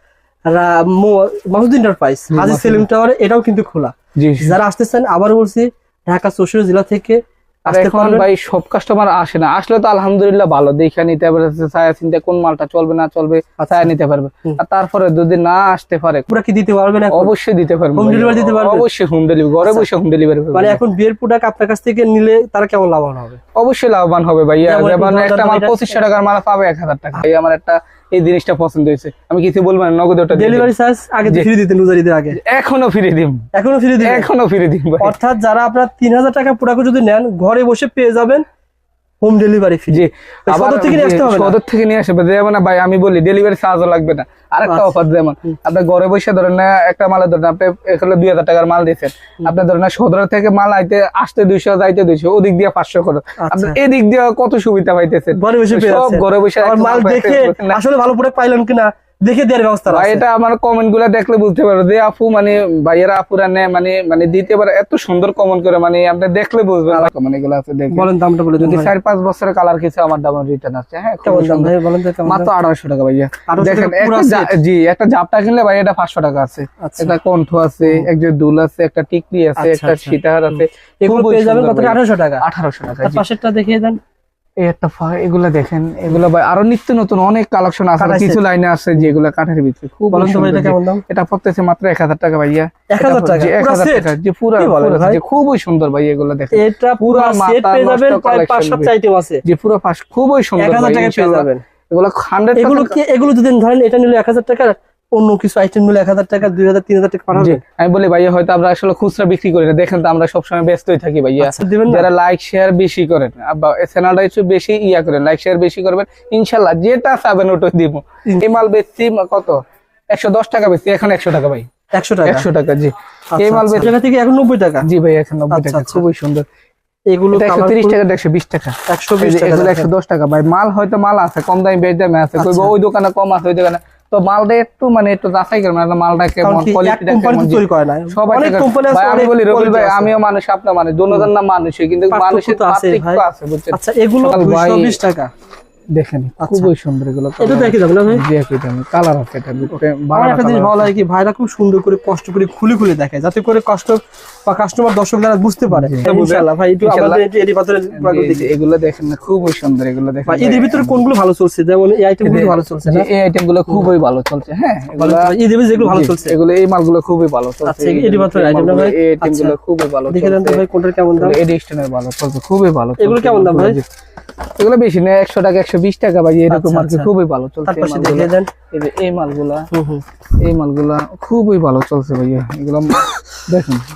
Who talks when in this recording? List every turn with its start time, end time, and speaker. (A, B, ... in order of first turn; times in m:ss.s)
0:00.5-0:08.3 A
0:02.3-0:02.8 B
0:04.2-0:04.6 B
0:07.7-0:16.3 B
0:13.6-0:13.9 A
0:16.3-0:17.3 A
0:17.1-0:20.8 B
0:18.0-0:18.8 A
0:19.6-0:19.9 A
0:20.5-0:23.4 A
0:23.5-0:30.7 B
0:24.6-0:25.8 A
0:30.3-0:32.4 A
0:32.4-0:33.4 B
0:33.5-0:34.3 A
0:34.0-0:35.1 B
0:35.0-0:38.4 A
0:39.2-0:41.6 A
0:39.9-0:57.8 B
0:44.6-0:44.9 A
0:53.4-0:53.8 A
0:55.3-1:00.2 A
0:59.9-1:11.7 B
1:07.9-1:08.9 A
1:11.2-1:12.5 A
1:12.2-1:23.2 B
1:13.5-1:14.6 A
1:16.8-1:17.2 A
1:17.8-1:18.1 A
1:19.6-1:22.4 A
1:23.0-1:24.0 A
1:24.6-1:38.9 B
1:28.0-1:28.4 A
1:30.1-1:31.0 A
1:32.9-1:35.2 A
1:36.5-1:39.4 A
1:39.4-1:43.0 B
1:40.6-1:41.6 A
1:42.6-1:47.6 A
1:47.3-1:59.6 B
1:51.4-1:52.1 A
2:00.1-2:01.7 B
2:01.9-2:02.5 A
2:02.2-2:03.9 B
2:03.3-2:04.8 A
2:04.8-2:06.4 B
2:05.5-2:06.0 A
2:07.1-2:08.0 A
2:07.3-2:25.0 B
2:08.9-2:09.9 A
2:12.4-2:12.7 A
2:16.4-2:20.1 A
2:22.1-2:25.3 A
2:25.9-2:30.9 B
2:26.4-2:26.7 A
2:27.4-2:28.2 A
2:30.1-2:38.5 A
2:35.7-2:37.2 B
2:37.9-2:41.0 B
2:40.3-2:43.1 A
2:42.2-2:50.6 B
2:45.0-2:46.3 A
2:47.6-2:49.6 A
2:50.1-2:51.4 A
2:51.2-2:53.9 B
2:53.0-2:53.8 A
2:54.6-2:59.7 B
2:56.5-2:57.1 A
2:57.6-2:58.5 A
2:59.7-3:00.0 A
3:00.4-3:03.8 B